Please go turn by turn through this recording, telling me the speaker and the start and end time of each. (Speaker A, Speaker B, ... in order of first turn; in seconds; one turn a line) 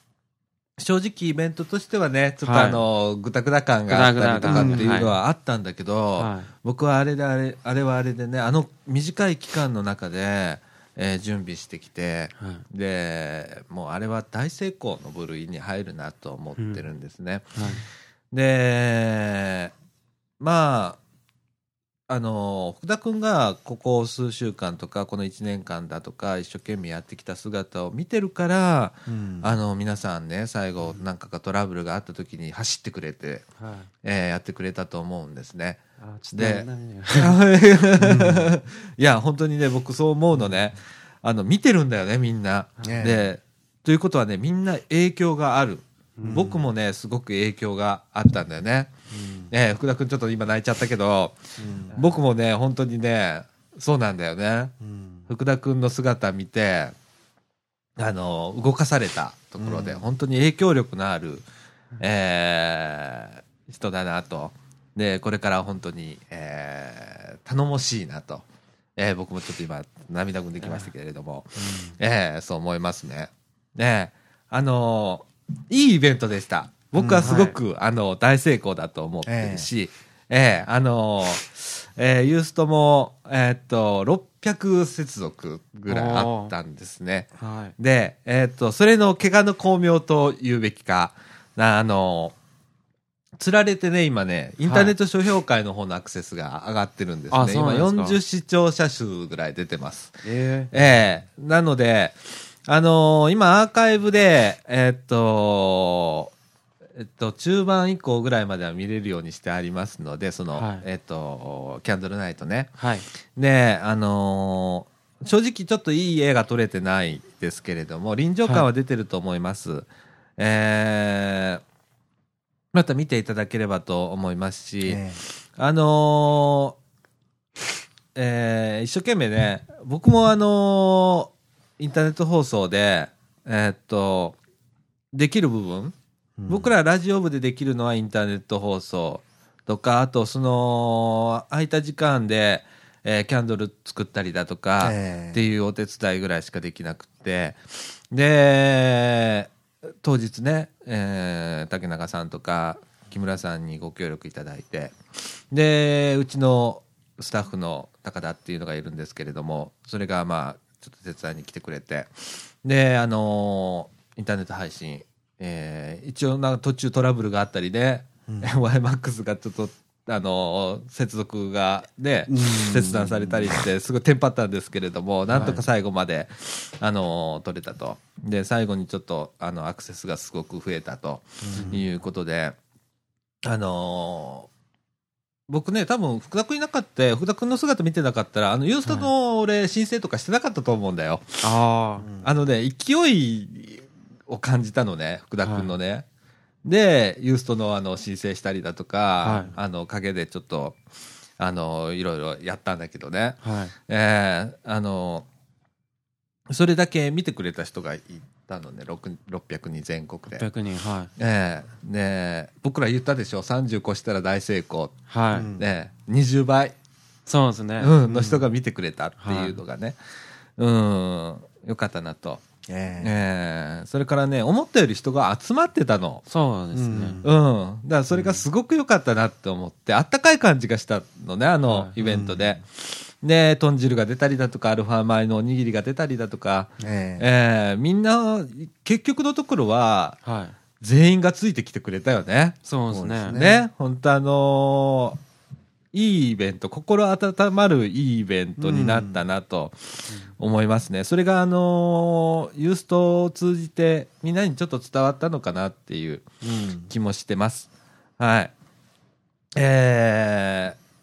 Speaker A: 0.8-17.6
Speaker B: 2.4-2.8
Speaker B: 3.9-5.1
Speaker C: 4.5-5.0
Speaker B: 6.2-6.5
Speaker B: 12.4-12.6
Speaker B: 16.6-16.8
Speaker B: 17.6-17.8
Speaker A: 18.3-19.7
Speaker A: 20.4-21.0
Speaker A: 22.1-33.5
Speaker C: 29.1-29.6
Speaker B: 33.6-33.9
Speaker A: 34.0-48.9
Speaker B: 36.0-37.4
Speaker C: 38.0-38.5
Speaker C: 42.8-43.3
Speaker B: 46.2-46.5
Speaker C: 46.2-46.6
Speaker C: 49.1-49.5
Speaker A: 49.5-51.4
Speaker C: 51.6-52.0
Speaker A: 51.9-54.7
Speaker C: 54.8-55.2
Speaker A: 55.3-56.9
Speaker A: 58.0-61.4
Speaker C: 59.6-60.1
Speaker A: 62.0-68.4
Speaker A: 69.0-92.3
Speaker B: 70.6-70.9
Speaker C: 71.6-71.9
Speaker C: 77.0-77.3
Speaker B: 77.2-77.6
Speaker C: 79.2-79.7
Speaker B: 85.9-86.5
Speaker B: 87.4-87.7
Speaker A: 93.4-106.3
Speaker B: 94.7-94.9
Speaker B: 97.3-98.2
Speaker B: 100.2-100.7
Speaker A: 107.0-112.7
Speaker B: 110.5-110.8
Speaker B: 112.8-113.0
Speaker A: 113.3-121.6
Speaker A: 122.7-125.0
Speaker C: 124.8-125.2
Speaker A: 125.5-126.8
Speaker A: 128.1-134.4
Speaker A: 135.1-135.9
Speaker C: 136.4-136.7
Speaker A: 136.5-149.5
Speaker C: 144.8-145.4
Speaker A: 150.0-154.9
Speaker A: 155.5-182.6
Speaker C: 168.3-168.5
Speaker C: 172.3-173.6
Speaker C: 175.3-175.6
Speaker B: 175.3-175.6
Speaker C: 181.4-181.8
Speaker B: 181.5-181.8
Speaker A: 183.4-184.5
Speaker A: 185.5-191.4
Speaker B: 191.4-192.1
Speaker C: 192.0-192.3
Speaker A: 192.2-196.0
Speaker B: 195.4-195.7
Speaker A: 196.6-200.8
Speaker B: 199.2-199.6
Speaker A: 201.4-205.2
Speaker B: 203.4-203.7
Speaker A: 206.5-210.4
Speaker B: 210.3-211.1
Speaker A: 211.2-216.7
Speaker B: 215.1-215.5
Speaker C: 215.3-215.7
Speaker B: 217.2-217.9
Speaker A: 217.8-220.0
Speaker C: 218.0-218.4
Speaker B: 219.2-219.6
Speaker A: 220.6-222.4
Speaker C: 222.7-223.2
Speaker A: 223.0-226.2
Speaker B: 226.3-227.2
Speaker C: 226.7-227.3
Speaker A: 227.2-240.2
Speaker B: 228.1-228.4
Speaker B: 231.7-231.9
Speaker C: 232.0-232.6
Speaker C: 236.8-237.2
Speaker B: 240.2-240.5
Speaker A: 240.8-242.6
Speaker B: 242.7-243.4
Speaker C: 242.9-243.6
Speaker A: 243.3-245.2
Speaker A: 245.9-256.2
Speaker C: 248.6-249.2
Speaker C: 256.4-256.9
Speaker A: 256.9-258.5
Speaker A: 259.5-260.8